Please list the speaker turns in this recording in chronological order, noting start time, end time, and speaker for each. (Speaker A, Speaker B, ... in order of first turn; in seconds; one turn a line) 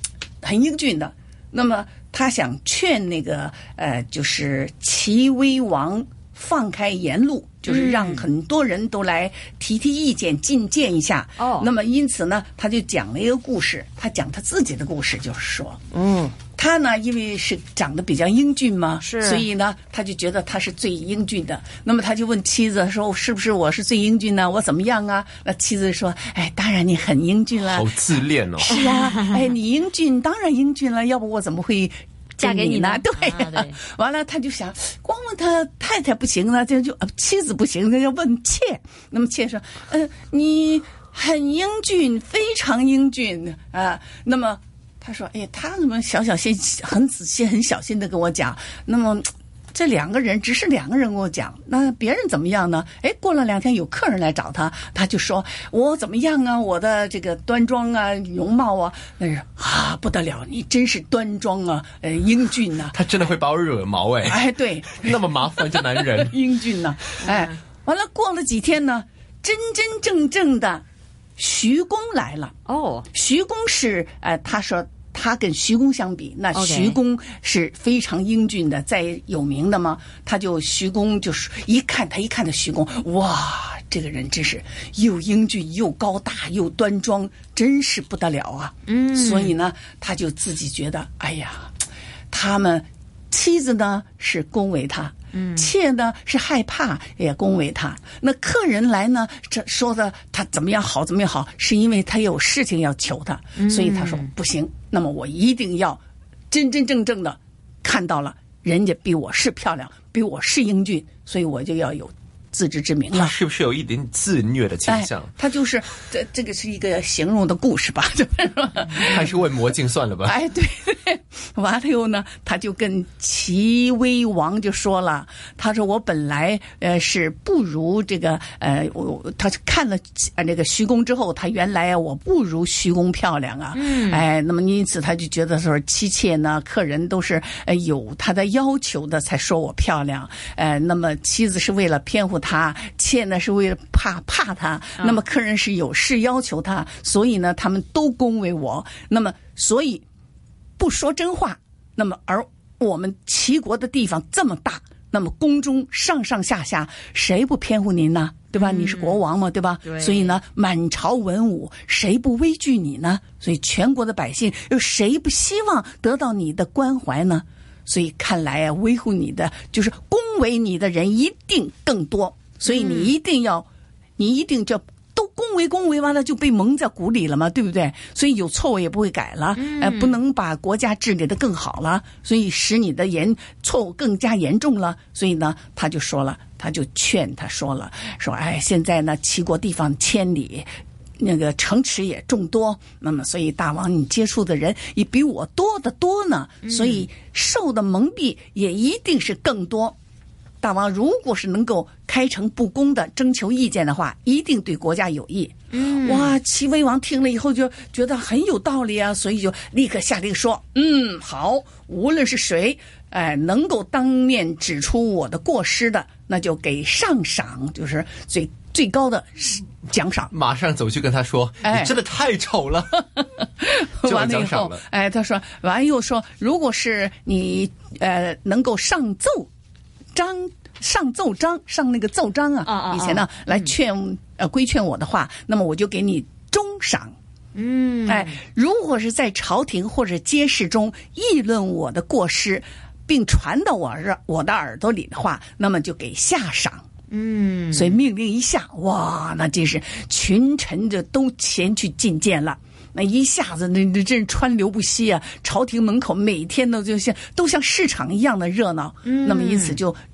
Speaker A: 0.4-15.8
Speaker B: 7.7-8.2
Speaker B: 11.4-11.7
Speaker B: 15.9-16.4
Speaker A: 16.6-27.9
Speaker B: 19.0-19.5
Speaker C: 27.6-28.8
Speaker A: 28.6-62.9
Speaker B: 28.7-29.3
Speaker B: 32.4-33.7
Speaker C: 62.9-66.3
Speaker A: 64.2-70.8
Speaker B: 67.2-67.5
Speaker A: 71.4-72.5
Speaker B: 72.7-73.0
Speaker A: 73.1-91.7
Speaker B: 76.5-77.0
Speaker B: 88.8-89.5
Speaker A: 92.3-106.0
Speaker B: 95.3-95.7
Speaker B: 103.6-104.3
Speaker A: 106.5-113.3
Speaker C: 113.1-115.3
Speaker A: 114.9-119.3
Speaker C: 119.0-120.3
Speaker A: 120.2-150.0
Speaker B: 133.7-134.2
Speaker B: 145.0-145.2
Speaker A: 150.8-173.7
Speaker B: 158.5-159.2
Speaker B: 159.8-160.4
Speaker B: 172.7-173.1
Speaker A: 174.2-190.7
Speaker B: 179.5-180.2
Speaker A: 191.2-199.9
Speaker B: 196.6-197.1
Speaker A: 200.6-220.3
Speaker B: 205.7-206.3
Speaker C: 220.3-223.0
Speaker A: 221.6-221.9
Speaker A: 223.2-229.5
Speaker C: 224.0-224.8
Speaker A: 230.1-237.1
Speaker B: 232.6-233.7
Speaker B: 237.5-238.4
Speaker A: 238.1-246.8
Speaker B: 247.1-248.0
Speaker A: 247.7-260.0
Speaker B: 259.0-259.8